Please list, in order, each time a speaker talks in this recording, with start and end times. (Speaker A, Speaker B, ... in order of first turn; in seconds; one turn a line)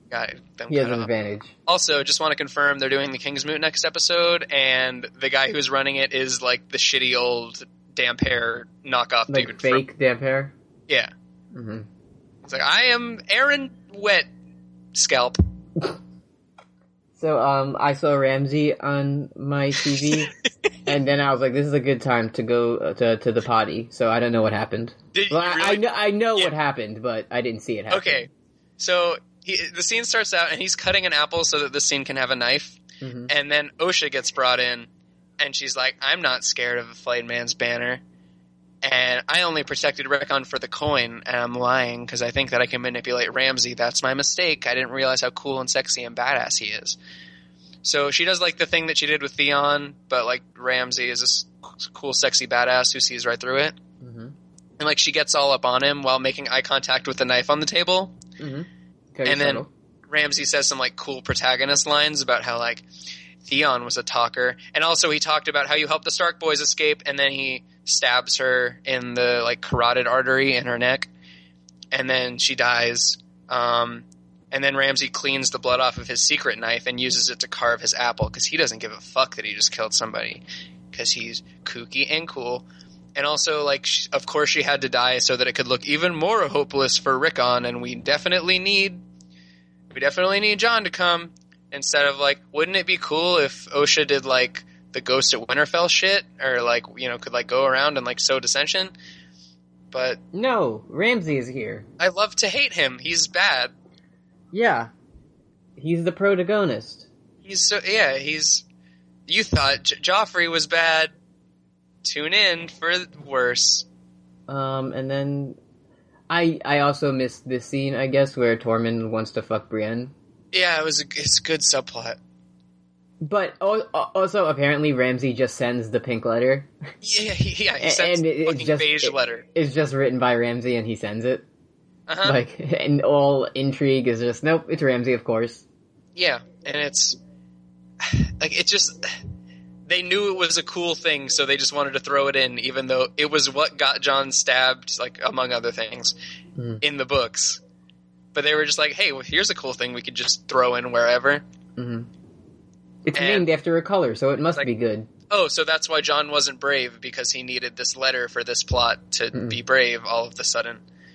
Speaker A: 0.1-1.1
Speaker B: 0.7-1.5
Speaker A: 1.6-9.8
Speaker B: 9.3-10.5
Speaker B: 11.5-11.9
Speaker A: 12.4-14.3
Speaker A: 14.9-15.4
Speaker B: 17.1-20.3
Speaker B: 20.9-28.2
Speaker A: 25.1-26.5
Speaker A: 27.9-38.0
Speaker B: 33.0-33.3
Speaker A: 38.8-47.0
Speaker A: 47.8-53.7
Speaker B: 54.0-54.3
Speaker A: 54.8-58.1
Speaker B: 58.4-59.7
Speaker A: 59.2-62.8
Speaker A: 63.4-71.1
Speaker A: 71.9-89.0
Speaker A: 89.9-98.9
Speaker A: 99.9-100.2
Speaker B: 100.3-101.8
Speaker A: 102.0-103.7
Speaker B: 104.5-104.9
Speaker B: 105.8-107.1
Speaker A: 107.4-108.6
Speaker A: 109.3-111.1
Speaker A: 112.0-113.9
Speaker B: 114.5-115.6
Speaker B: 116.3-120.1
Speaker A: 120.5-122.2
Speaker B: 123.2-126.7
Speaker A: 127.0-129.4
Speaker B: 127.8-131.4
Speaker A: 132.1-132.4
Speaker B: 132.2-135.6
Speaker A: 136.2-137.2
Speaker A: 138.0-139.1
Speaker A: 139.9-146.1
Speaker B: 146.6-146.8
Speaker A: 146.8-147.6
Speaker A: 148.3-151.4
Speaker B: 151.8-152.1
Speaker B: 153.0-155.1
Speaker A: 153.1-153.5
Speaker A: 155.3-160.8